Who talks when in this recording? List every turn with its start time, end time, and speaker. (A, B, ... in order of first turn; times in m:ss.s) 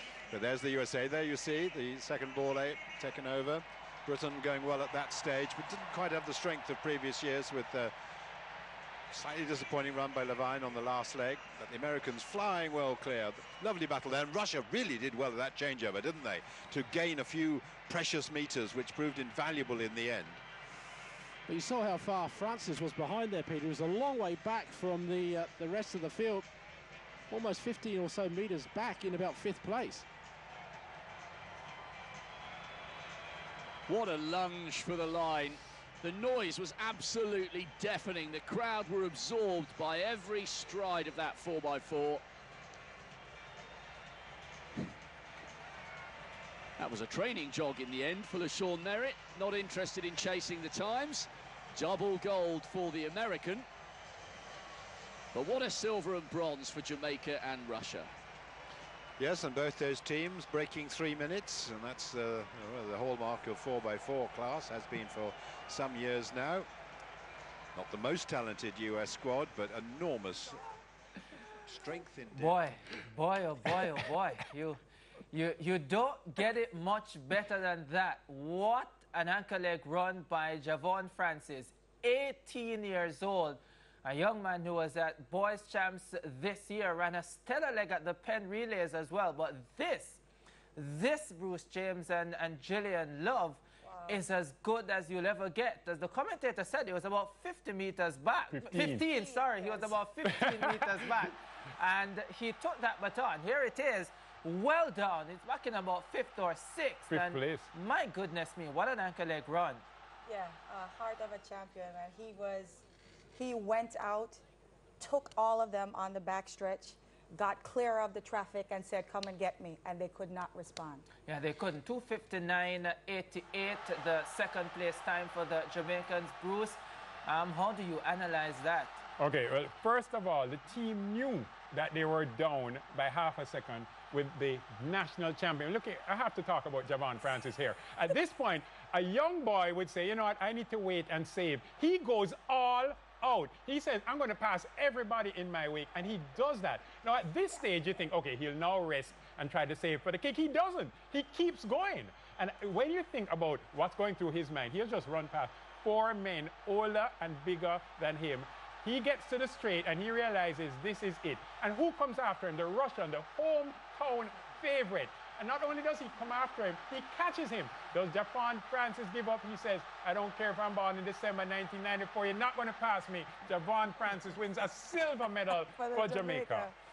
0:00.3-0:07.9 A
0:09.1-0:20.4 A
0:21.5-0:26.5 B
0:27.3-0:30.1 B
0:33.9-0:42.2 C
0:46.8-0:53.7 C
0:55.3-0:58.1 C
0:59.2-1:06.7 A
1:07.8-1:10.6 A
1:11.7-1:12.7 A
1:12.3-1:14.8 D
1:15.3-1:30.2 D
1:30.8-1:49.8 D
1:33.8-1:34.2 E
1:38.5-1:39.0 F
1:39.1-1:39.9 E
1:47.1-1:47.7 F
1:50.3-1:52.8 E
1:53.3-1:54.4 E
1:55.0-2:01.1 E
2:01.3-2:09.0 D
2:09.2-2:56.7 F
2:55.5-2:56.7 E